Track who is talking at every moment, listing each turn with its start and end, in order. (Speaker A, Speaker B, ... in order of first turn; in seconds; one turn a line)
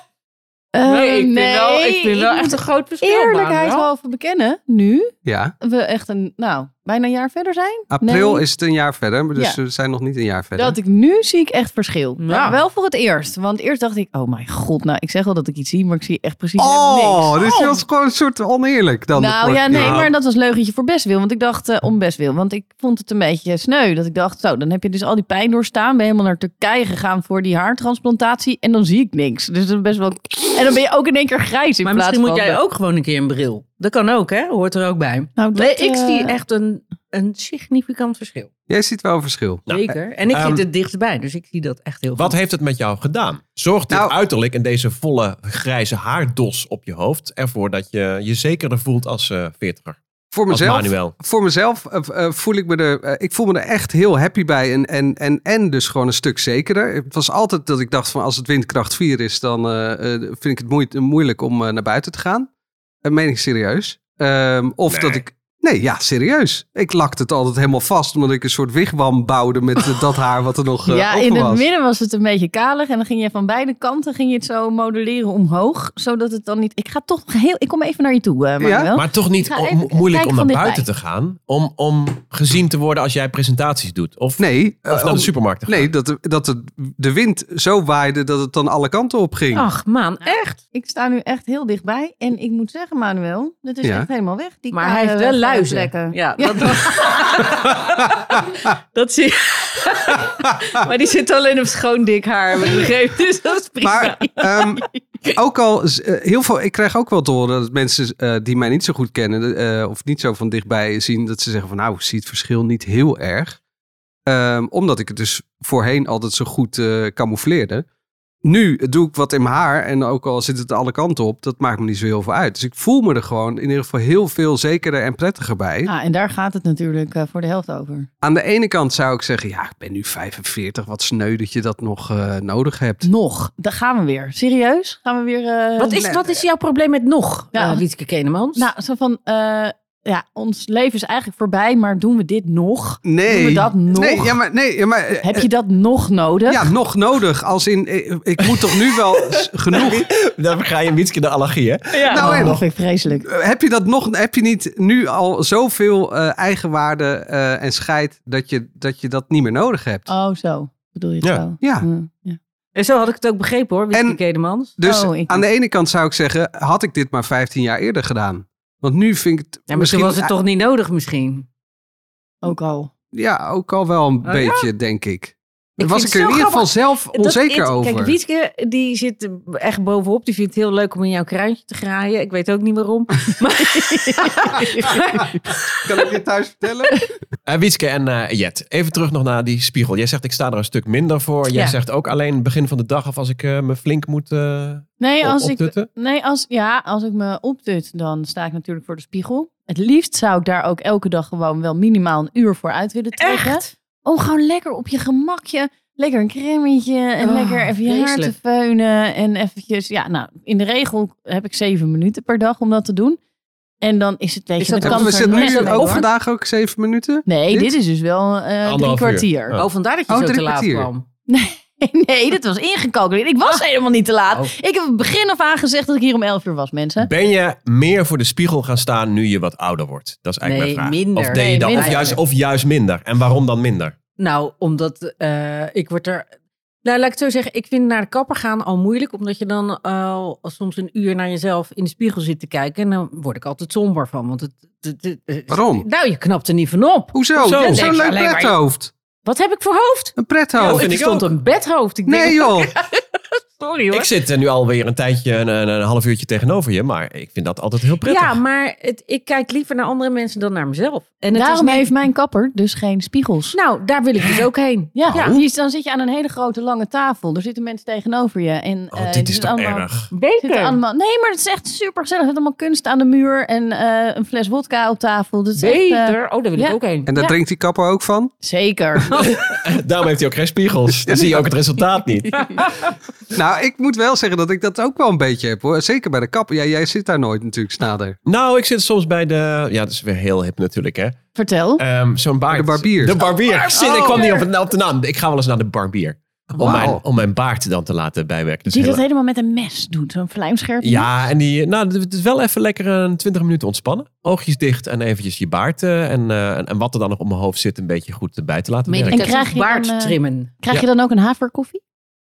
Speaker A: 0.7-8.4
Speaker B: 0.8-3.9
Speaker C: 5.2-5.5
Speaker C: 7.9-10.8
Speaker A: 10.6-17.8
Speaker B: 12.2-12.6
Speaker C: 16.6-20.1
Speaker A: 19.1-32.6
Speaker D: 19.7-20.0
Speaker B: 31.8-38.5
Speaker A: 35.4-36.4
Speaker C: 38.7-39.9
Speaker D: 39.7-40.6
Speaker B: 39.7-42.3
Speaker D: 42.1-50.0
Speaker C: 43.9-44.1
Speaker C: 50.3-62.5
Speaker D: 50.5-51.1
Speaker C: 63.0-71.7
Speaker D: 64.9-65.2
Speaker A: 70.9-80.8
Speaker C: 78.6-78.9
Speaker D: 78.9-85.9
Speaker C: 84.4-89.7
Speaker B: 89.5-90.6
Speaker A: 90.7-97.1
Speaker C: 93.8-94.1
Speaker B: 94.7-104.7
Speaker C: 103.8-113.6
Speaker C: 114.2-117.8
Speaker C: 118.4-125.9
Speaker A: 125.8-128.1
Speaker C: 128.2-133.1
Speaker A: 133.0-136.1
Speaker B: 135.8-138.7
Speaker A: 137.5-137.8
Speaker A: 138.6-144.4
Speaker C: 143.0-145.5
Speaker A: 145.2-146.7
Speaker C: 146.5-150.0
Speaker D: 148.4-152.6
Speaker B: 151.9-152.3
Speaker C: 152.1-152.6
Speaker A: 152.1-153.2
Speaker C: 153.2-160.1
Speaker A: 160.1-162.4
Speaker C: 161.6-161.9
Speaker B: 162.7-164.7
Speaker C: 163.9-164.2
Speaker C: 164.8-170.3
Speaker A: 164.8-165.4
Speaker B: 169.7-171.4
Speaker A: 172.4-172.9
Speaker C: 173.1-178.1
Speaker B: 174.2-174.7
Speaker B: 175.8-186.1
Speaker A: 183.7-184.9
Speaker C: 185.7-187.1
Speaker D: 187.4-195.9
Speaker B: 191.5-191.8
Speaker A: 195.0-213.2
Speaker B: 203.2-203.7
Speaker B: 207.2-208.3
Speaker A: 213.8-216.0
Speaker B: 214.6-216.1
Speaker C: 214.8-217.7
Speaker A: 217.2-219.6
Speaker D: 218.6-219.7
Speaker B: 219.6-221.1
Speaker C: 220.1-220.9
Speaker A: 221.3-227.1
Speaker D: 227.0-233.9
Speaker B: 230.4-232.2
Speaker A: 231.3-232.2
Speaker B: 234.2-236.3
Speaker B: 236.8-248.6
Speaker C: 245.5-245.8
Speaker C: 247.1-248.9
Speaker D: 247.4-248.0
Speaker B: 249.2-254.1
Speaker C: 250.2-250.9
Speaker D: 250.6-251.3
Speaker C: 252.1-252.7
Speaker D: 253.9-258.4
Speaker B: 258.0-261.9
Speaker A: 261.3-263.6
Speaker B: 263.5-265.4
Speaker A: 264.9-269.9
Speaker D: 268.9-270.1
Speaker B: 270.1-270.8
Speaker A: 270.4-277.4
Speaker B: 275.6-277.1
Speaker C: 277.1-278.3
Speaker A: 278.4-279.3
Speaker D: 279.2-282.6
Speaker C: 281.1-281.4
Speaker C: 283.3-288.2
Speaker D: 288.2-291.2
Speaker A: 291.3-291.8
Speaker D: 291.8-299.0
Speaker C: 292.5-293.2
Speaker A: 293.5-294.4
Speaker B: 293.7-294.4
Speaker B: 296.6-296.9
Speaker C: 296.6-297.0
Speaker A: 298.7-301.1
Speaker D: 300.8-309.2
Speaker B: 308.9-310.5
Speaker A: 308.9-311.8